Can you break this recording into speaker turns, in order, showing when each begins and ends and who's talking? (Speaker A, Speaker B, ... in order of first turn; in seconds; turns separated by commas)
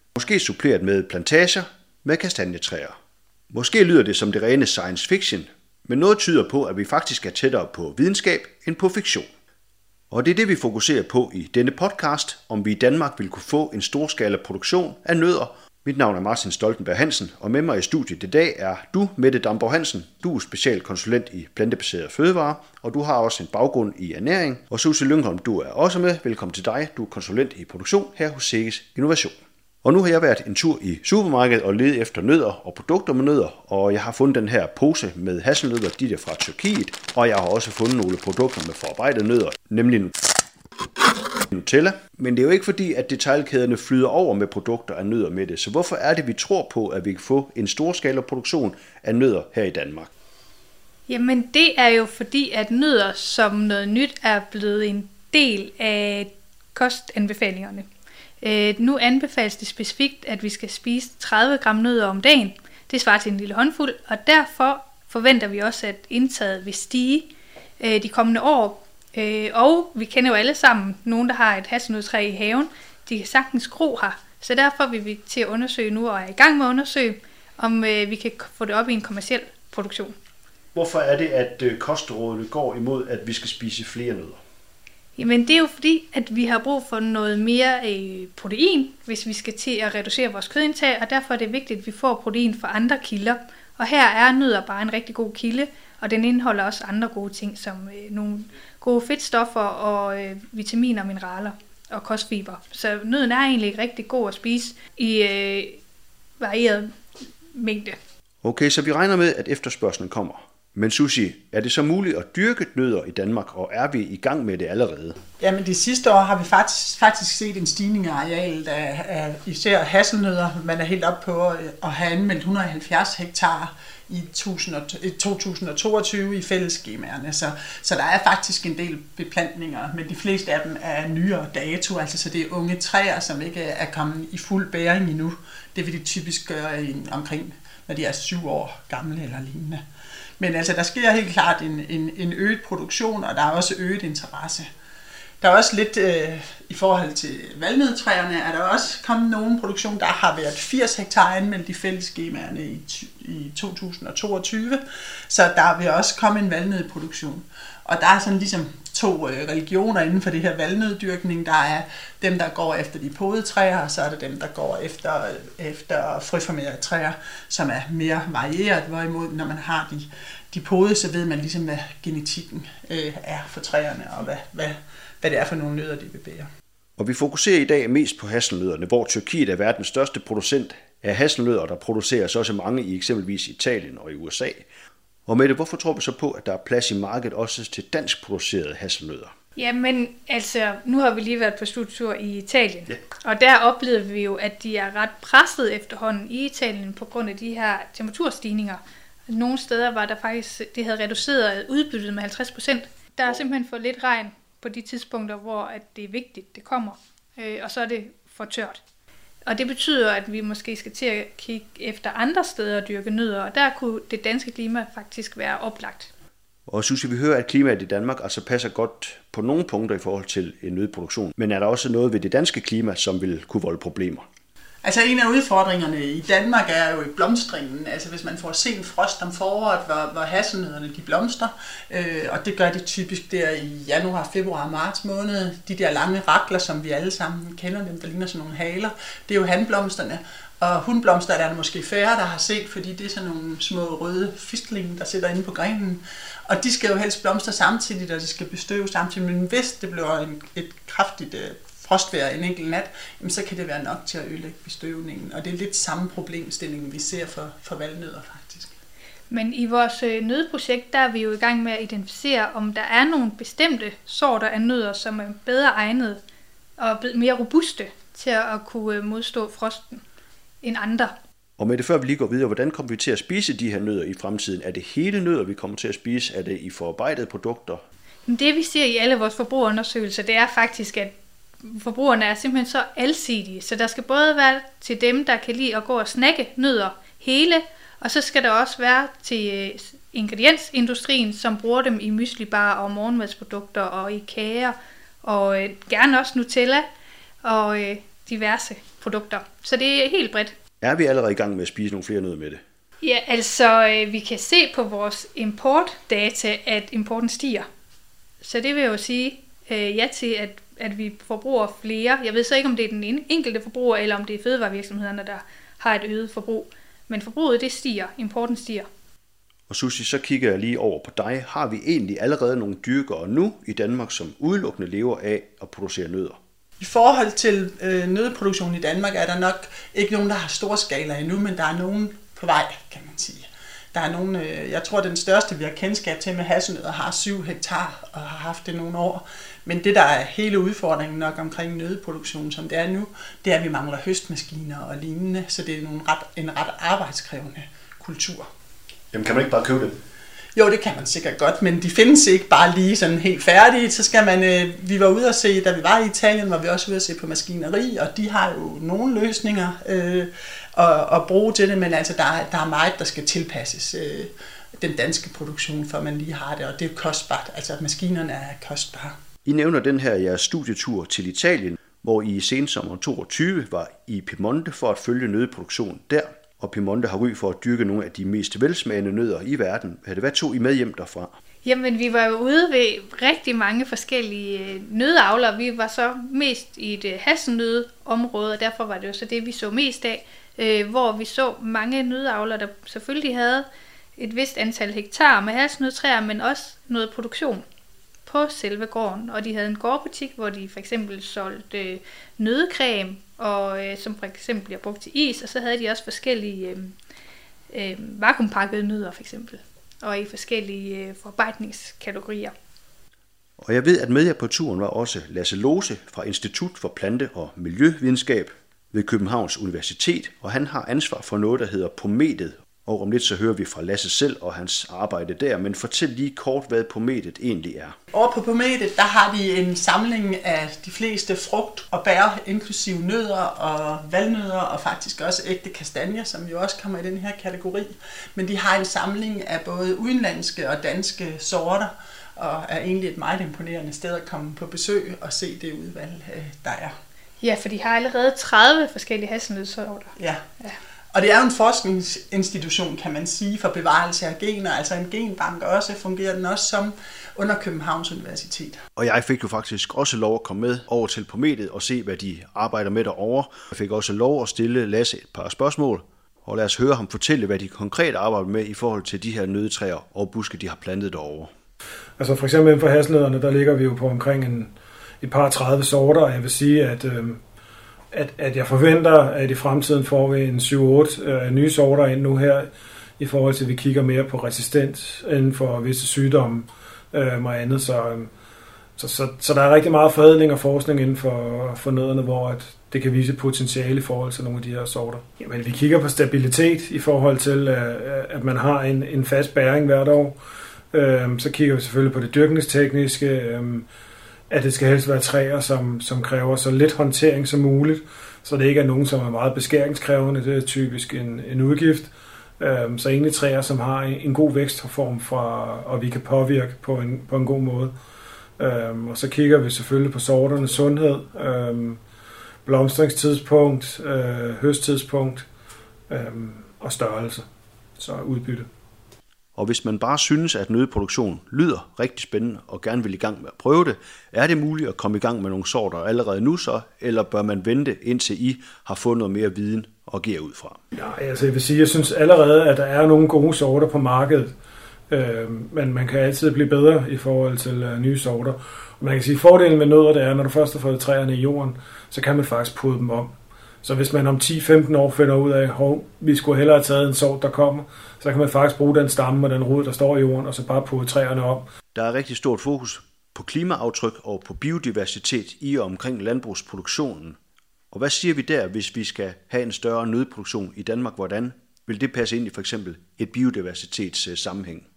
Speaker A: 0.1-2.9, Speaker A: 3.5-9.3, Speaker A: 10.1-40.1, Speaker A: 41.5-50.1, Speaker B: 51.1-57.9, Speaker B: 58.4-80.2, Speaker A: 80.7-84.4, Speaker B: 85.2-105.8, Speaker B: 106.4-106.9, Speaker B: 107.5-108.0, Speaker A: 108.4-115.2, Speaker C: 115.4-139.8, Speaker C: 140.4-144.7, Speaker C: 145.4-176.5, Speaker A: 177.0-184.7, Speaker A: 185.3-189.3, Speaker B: 189.6-208.8, Speaker B: 209.4-216.1, Speaker A: 216.7-224.2, Speaker C: 224.8-258.7, Speaker B: 259.3-266.2, Speaker B: 266.8-270.0, Speaker B: 270.6-271.1, Speaker A: 271.6-277.8, Speaker B: 278.3-296.9, Speaker B: 297.4-300.5, Speaker A: 300.8-302.6, Speaker B: 303.0-307.7, Speaker B: 308.4-318.9, Speaker A: 319.7-326.4, Speaker C: 326.8-348.5, Speaker A: 349.1-350.0, Speaker C: 350.5-369.1, Speaker A: 369.4-381.3, Speaker B: 381.6-397.6, Speaker B: 398.2-406.9, Speaker B: 407.7-412.5, Speaker A: 413.6-427.9, Speaker C: 428.1-446.9, Speaker B: 447.4-450.8, Speaker C: 450.2-450.4, Speaker C: 451.1-458.8, Speaker A: 458.9-471.5, Speaker D: 472.2-477.4, Speaker D: 478.1-488.3, Speaker D: 489.0-500.4, Speaker D: 500.9-503.9, Speaker D: 504.5-517.9, Speaker D: 518.6-522.0, Speaker D: 522.6-525.5, Speaker D: 526.1-527.5, Speaker D: 528.0-528.7, Speaker A: 529.5-540.8, Speaker D: 541.0-544.5, Speaker D: 545.1-553.3, Speaker D: 553.8-561.6, Speaker A: 561.9-567.4, Speaker A: 567.9-574.9